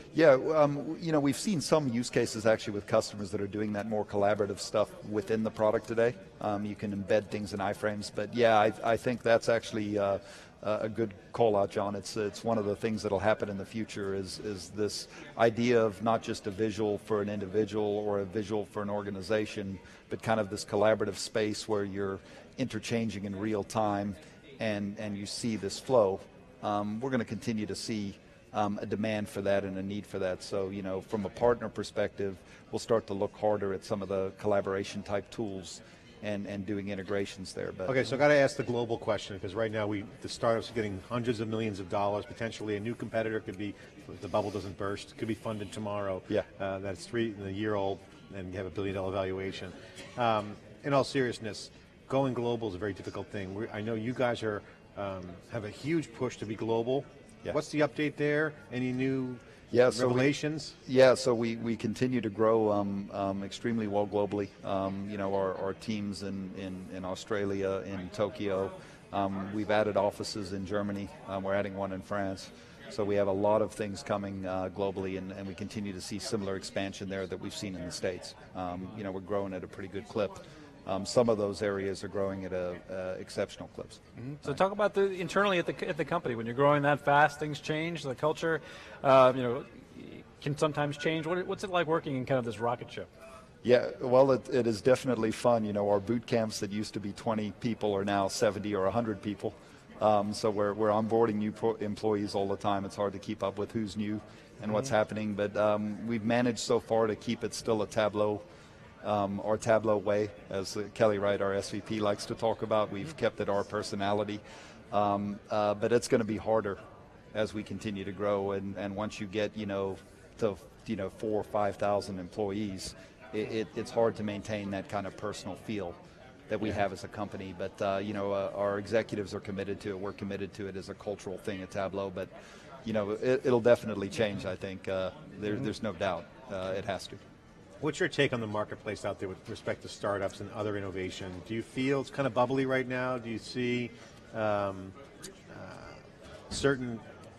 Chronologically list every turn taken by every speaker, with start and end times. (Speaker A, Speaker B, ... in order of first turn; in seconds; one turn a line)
Speaker A: 0.1-38.0
Speaker B: 37.9-60.8
Speaker A: 59.7-60.3
Speaker A: 60.9-84.6
Speaker C: 84.2-93.1
Speaker A: 93.6-108.4
Speaker A: 109.0-116.8
Speaker A: 117.3-126.0
Speaker A: 126.5-132.3
Speaker A: 132.8-137.2
Speaker B: 137.8-144.9
Speaker B: 145.5-146.0
Speaker B: 146.5-147.0